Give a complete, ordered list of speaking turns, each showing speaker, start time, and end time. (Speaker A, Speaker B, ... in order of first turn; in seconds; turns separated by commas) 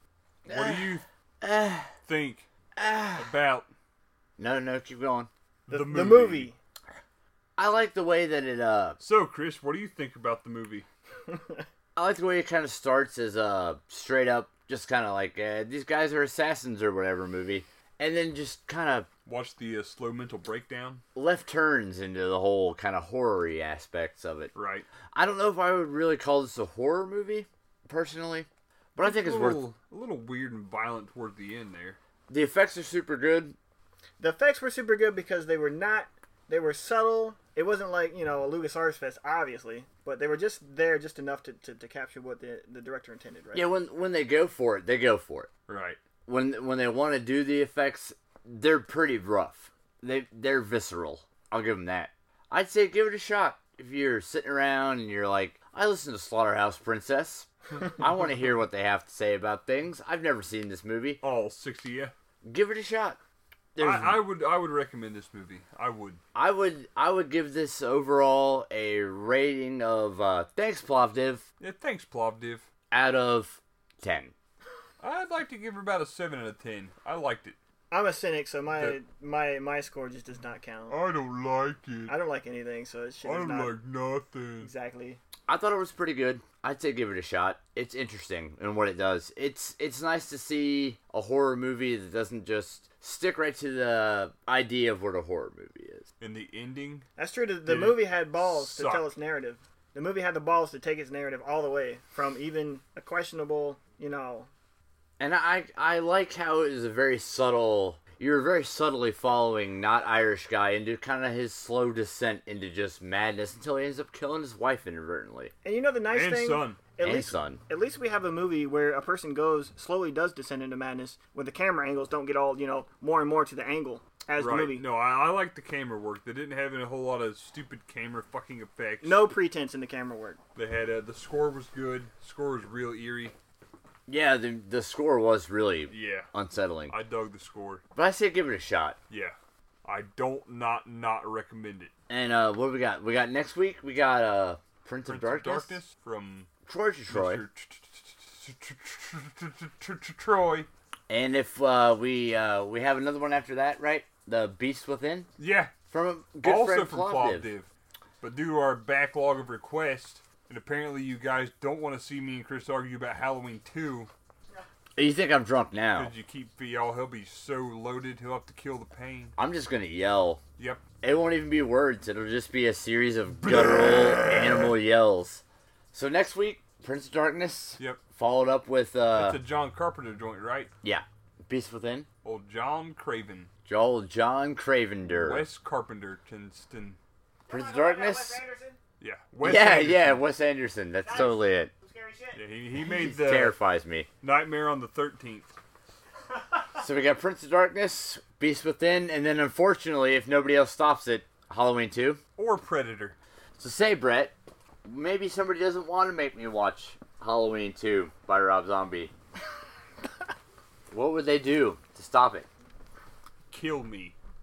Speaker A: 0.4-1.9, Speaker B: 0.5-1.0, Speaker B: 2.0-2.5, Speaker A: 2.8-3.3, Speaker B: 3.1-3.7, Speaker A: 4.4-5.3, Speaker B: 5.7-6.5, Speaker C: 5.7-6.6, Speaker A: 7.6-9.0, Speaker B: 9.0-10.8, Speaker C: 11.3-11.6, Speaker A: 11.9-19.1, Speaker B: 19.2-21.0, Speaker A: 21.1-24.5, Speaker B: 24.5-24.9, Speaker A: 25.1-29.6, Speaker B: 28.9-32.0, Speaker A: 32.3-33.5, Speaker C: 34.2-43.6, Speaker A: 43.5-45.5, Speaker B: 45.7-46.0, Speaker A: 46.2-61.2, Speaker B: 61.2-62.1, Speaker A: 62.4-63.2, Speaker A: 63.7-64.2, Speaker B: 63.8-66.2, Speaker A: 66.3-71.4, Speaker B: 71.6-72.7, Speaker A: 72.9-74.3, Speaker B: 75.0-77.6, Speaker C: 77.9-81.0, Speaker B: 80.9-82.1, Speaker C: 82.1-83.7, Speaker B: 83.2-84.7, Speaker C: 84.6-85.2, Speaker A: 85.5-96.0, Speaker B: 96.2-97.0, Speaker C: 97.2-104.5, Speaker B: 97.7-99.0, Speaker A: 105.2-115.5, Speaker C: 115.6-124.8, Speaker B: 116.1-116.8, Speaker A: 117.0-117.6, Speaker B: 124.4-129.3, Speaker C: 129.0-130.4, Speaker B: 130.5-133.3, Speaker A: 134.1-136.9, Speaker B: 135.9-136.3, Speaker B: 136.9-137.8, Speaker A: 137.9-139.0, Speaker B: 139.1-141.9, Speaker A: 142.1-145.8, Speaker B: 145.1-146.5, Speaker A: 146.7-147.4, Speaker B: 147.1-150.7, Speaker A: 151.1-155.3, Speaker B: 155.4-155.7, Speaker A: 155.9-157.5, Speaker B: 156.4-157.7, Speaker B: 158.2-164.1, Speaker A: 165.0-166.1, Speaker B: 165.9-169.3, Speaker A: 169.4-170.4, Speaker B: 170.6-170.8, Speaker A: 171.0-179.4, Speaker B: 173.4-174.0, Speaker B: 179.2-180.7, Speaker A: 180.8-182.1, Speaker B: 182.2-183.5, Speaker A: 183.7-185.5, Speaker B: 185.0-187.0, Speaker C: 187.5-188.8, Speaker A: 187.5-188.4, Speaker B: 189.0-190.2, Speaker A: 189.4-191.7, Speaker C: 191.0-192.4, Speaker B: 192.3-193.6, Speaker A: 192.8-194.1, Speaker B: 194.2-195.6, Speaker A: 196.8-202.2, Speaker B: 202.4-203.2, Speaker A: 203.6-204.3, Speaker A: 204.8-209.1, Speaker A: 210.9-212.5, Speaker B: 213.5-214.2